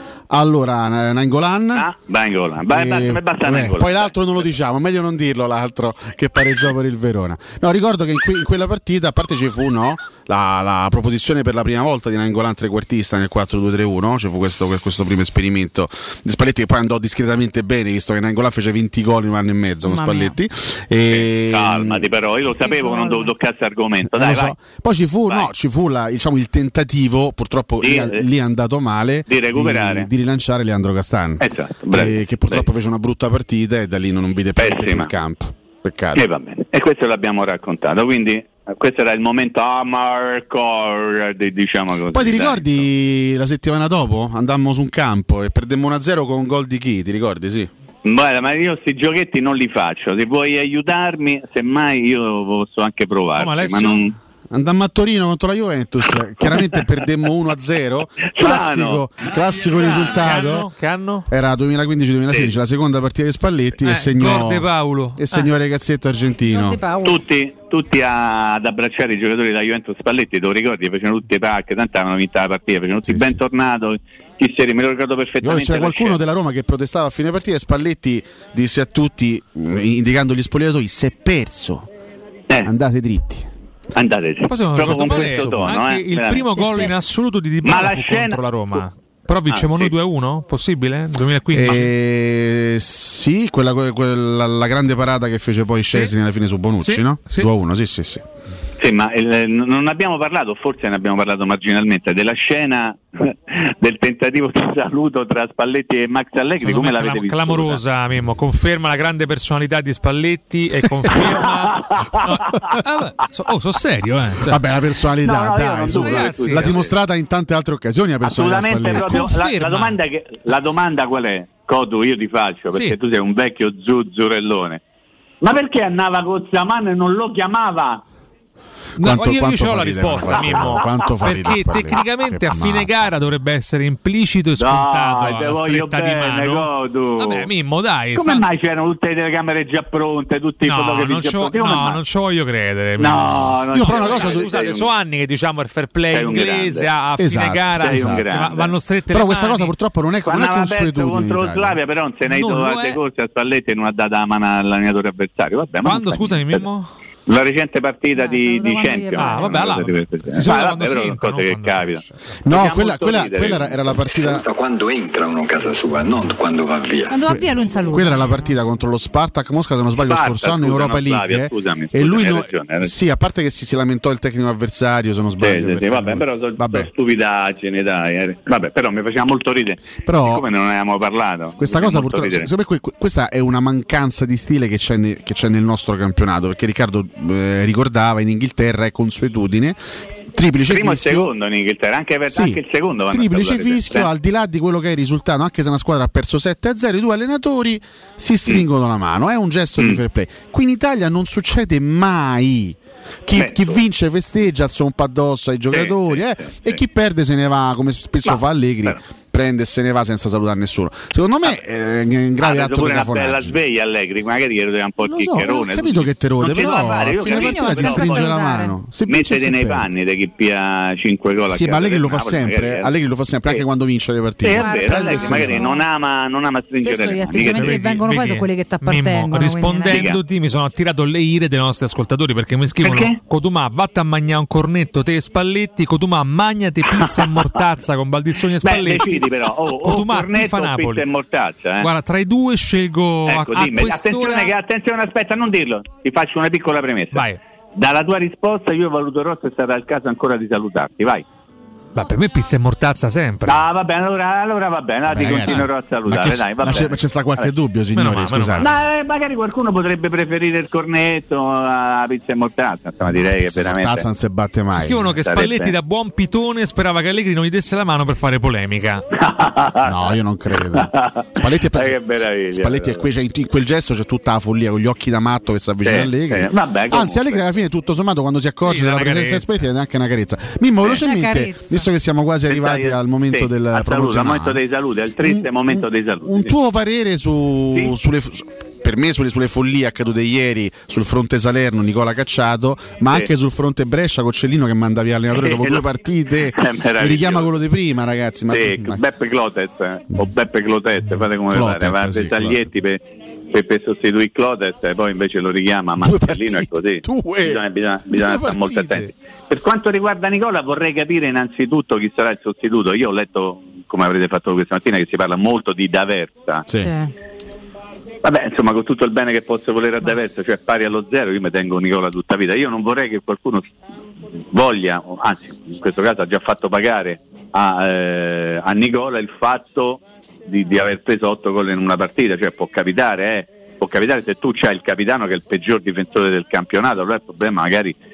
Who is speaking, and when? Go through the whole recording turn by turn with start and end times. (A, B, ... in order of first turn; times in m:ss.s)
0:00.3-0:01.9 A
0:01.7-0:04.1 B
0:02.7-0:22.1 A
0:19.8-0:20.3 C
0:21.1-0:24.5 B
0:22.6-0:23.3 C
0:24.0-0:36.2 A
0:27.8-0:28.2 B
0:29.3-0:30.1 B
0:31.4-0:32.6 B
0:34.6-0:35.1 B
0:36.1-0:42.8 B
0:42.1-0:47.7 A
0:48.0-0:54.1 B
0:53.4-0:54.0 D
0:54.5-1:00.7 A
0:58.3-0:59.0 B
0:59.7-1:01.3 D
1:01.3-1:06.8 A
1:03.8-1:05.5 D
1:06.5-1:07.2 C
1:07.0-1:16.2 B
1:13.1-1:13.4 A
1:15.4-1:21.9 A
1:22.6-1:23.5 A
1:23.9-1:26.6 B
1:24.5-1:31.9 D
1:24.9-1:25.7 A
1:26.5-1:27.0 C
1:27.6-1:28.4 B
1:29.5-1:29.9 B
1:31.5-1:38.2 A
1:36.8-1:37.5 D
1:38.8-1:47.8 B
1:46.6-1:54.6 D
1:51.1-1:52.8 B
1:54.4-1:59.2 A
1:55.2-1:56.9 B
1:55.9-1:56.7 D
1:58.2-2:04.8 B
1:58.9-2:00.0 D
2:05.4-2:08.0 B
2:09.0-2:13.1 A
2:09.0-2:18.4 D
2:14.6-2:17.5 B
2:18.1-2:22.0 B
2:20.6-2:29.7 D
2:23.0-2:24.9 B
2:23.7-2:24.4 A
2:26.1-2:26.9 B
2:27.2-2:28.3 A
2:27.8-2:28.8 B
2:29.1-2:31.8 A
2:30.2-2:36.6 B
2:32.2-2:33.0 D
2:35.8-2:36.9 D
2:37.3-2:44.0 B
2:38.1-2:39.7 C
2:39.2-2:42.3 D
2:42.4-2:44.4 A
2:44.0-2:47.2 E
2:47.1-2:48.4 C
2:47.2-2:56.9 A
2:50.0-2:52.9 B
2:55.4-3:02.5 B
3:00.0-3:00.4 A
3:01.6-3:09.8 A
3:10.3-3:11.3 A
3:10.7-3:14.1 B
3:12.3-3:33.6 A
3:23.3-3:23.8 B
3:25.7-3:26.8 B
3:28.2-3:29.0 B
3:32.4-3:38.3 B
3:35.0-3:39.9 A
3:36.6-3:38.7 C
3:39.1-3:42.9 B
3:41.5-3:45.6 A
3:44.4-3:47.8 B
3:44.5-3:45.8 C
3:46.8-3:50.0 C
3:47.4-4:01.0 D
3:49.8-3:50.2 B
3:52.8-3:53.2 B
3:56.9-3:57.3 B
3:58.6-4:01.9 B
4:01.8-4:04.5 D
4:03.3-4:11.2 B
4:07.1-4:07.4 D
4:11.9-4:13.6 D
4:13.4-4:17.5 B
4:15.1-4:18.7 A
4:15.2-4:15.6 D
4:17.9-4:18.7 D
4:18.6-4:24.0 B
4:23.1-4:25.1 A
4:24.7-4:29.0 D
4:25.2-4:25.7 B
4:29.2-4:30.0 B
4:29.8-4:44.6 A
4:30.7-4:33.0 B
4:35.8-4:37.4 B
4:38.6-4:39.6 D
4:41.0-4:41.9 C
4:42.5-4:46.5 B
4:45.2-4:59.0 A
4:55.3-4:55.8 B
4:56.4-4:57.5 B
4:58.5-5:16.6 B
5:01.1-5:02.6 A
5:06.0-5:09.1 A
5:16.7-5:16.9 A
5:16.8-5:17.1 C
5:18.2-5:23.7 B
5:24.5-5:37.9 B